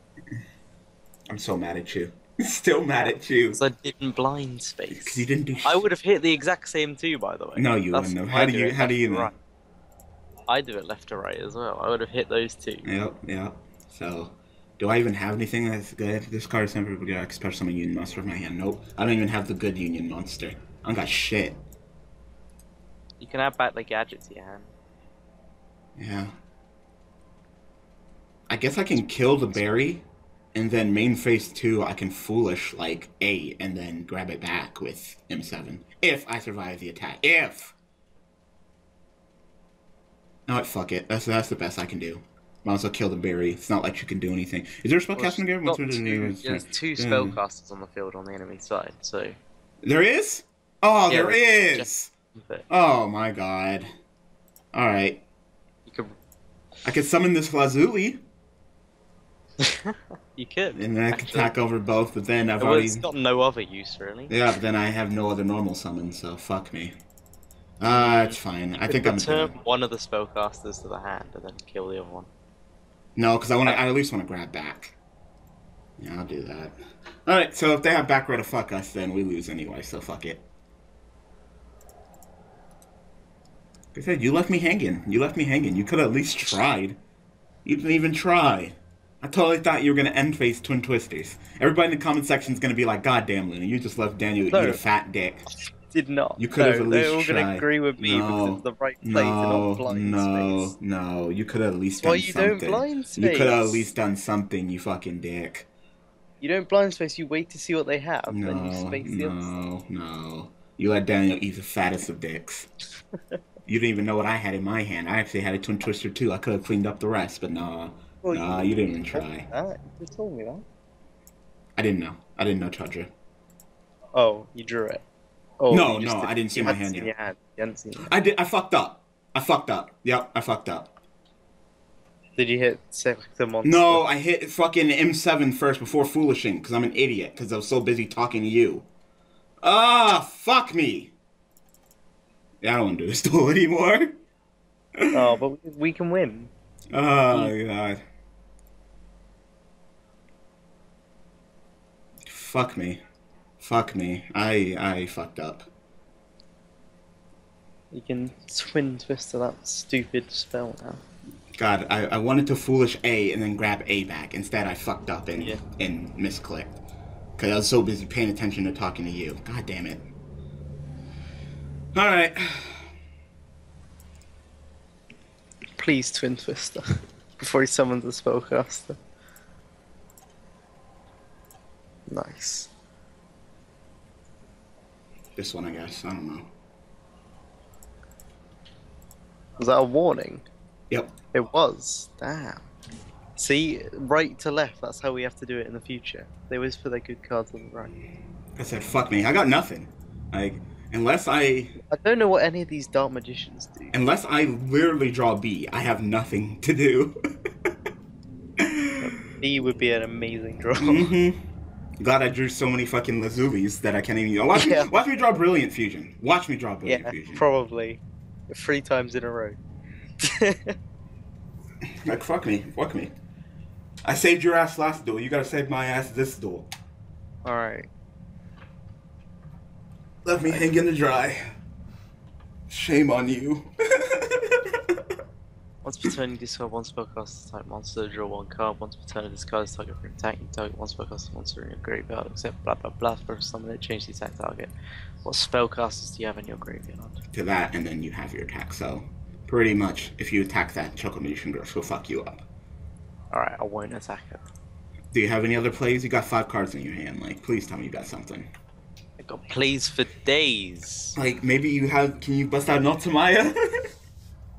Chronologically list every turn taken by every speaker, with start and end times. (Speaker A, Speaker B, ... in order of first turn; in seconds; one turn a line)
Speaker A: 1.3-3.6
Speaker B: 3.0-9.3
Speaker A: 4.9-5.8
Speaker A: 7.5-9.3
Speaker B: 10.5-12.8
Speaker A: 12.8-21.6
Speaker B: 23.2-24.7
Speaker A: 26.0-26.3
Speaker A: 28.5-37.7
Speaker A: 40.5-47.4
Speaker B: 45.1-49.4
Speaker A: 49.8-52.1
Speaker B: 51.1-52.6
Speaker A: 52.7-53.9
Speaker A: 54.7-55.2
Speaker B: 55.9-56.1
Speaker A: 56.8-58.2
Speaker B: 59.6-61.5
Speaker A: 60.7-63.0
Speaker B: 62.6-64.3
Speaker A: 64.3-66.9
Speaker A: 67.8-69.5
Speaker B: 67.9-72.3
Speaker A: 73.2-75.0
Speaker A: 76.0-80.4
Speaker A: 83.9-87.0
Speaker A: 87.6-95.4
Speaker B: 94.5-94.8
Speaker B: 95.9-100.7
Speaker A: 96.4-105.7
Speaker B: 102.0-103.8
Speaker B: 106.4-109.5
Speaker A: 108.3-112.7
Speaker A: 113.7-119.5
Speaker B: 118.2-120.6
Speaker A: 121.8-123.1
Speaker B: 124.1-125.0
Speaker B: 125.6-128.1
Speaker A: 125.7-127.1
Speaker A: 128.0-130.9
Speaker B: 132.4-134.0
Speaker A: 133.6-138.9
Speaker A: 139.6-141.1
Speaker A: 142.6-144.1
Speaker A: 144.9-145.3
Speaker B: 145.1-146.5
Speaker A: 146.9-148.0
Speaker A: 152.2-153.0
Speaker A: 153.6-155.7
Speaker B: 157.9-161.0
Speaker A: 161.5-166.8
Speaker A: 167.4-170.1
Speaker A: 171.9-172.9
Speaker B: 175.8-176.8
Speaker B: 177.4-179.0
Speaker B: 182.1-182.7
Speaker A: 185.3-186.5
Speaker B: 189.6-190.4
Speaker B: 191.3-192.7
Speaker B: 193.4-197.9
Speaker A: 198.6-201.8
Speaker B: 201.8-203.9
Speaker A: 203.9-207.2
Speaker A: 208.6-209.1
Speaker B: 209.0-211.1
Speaker A: 210.8-211.4
Speaker A: 212.0-217.4
Speaker B: 214.5-214.9
Speaker B: 216.8-219.6
Speaker B: 220.2-220.7
Speaker A: 222.0-223.1
Speaker A: 224.0-226.7
Speaker B: 227.4-227.9
Speaker A: 230.2-231.4
Speaker A: 232.7-235.0
Speaker B: 235.8-244.7
Speaker B: 245.2-247.2
Speaker A: 247.3-252.4
Speaker B: 253.3-254.4
Speaker A: 255.1-258.5
Speaker B: 259.2-261.2
Speaker A: 261.1-263.9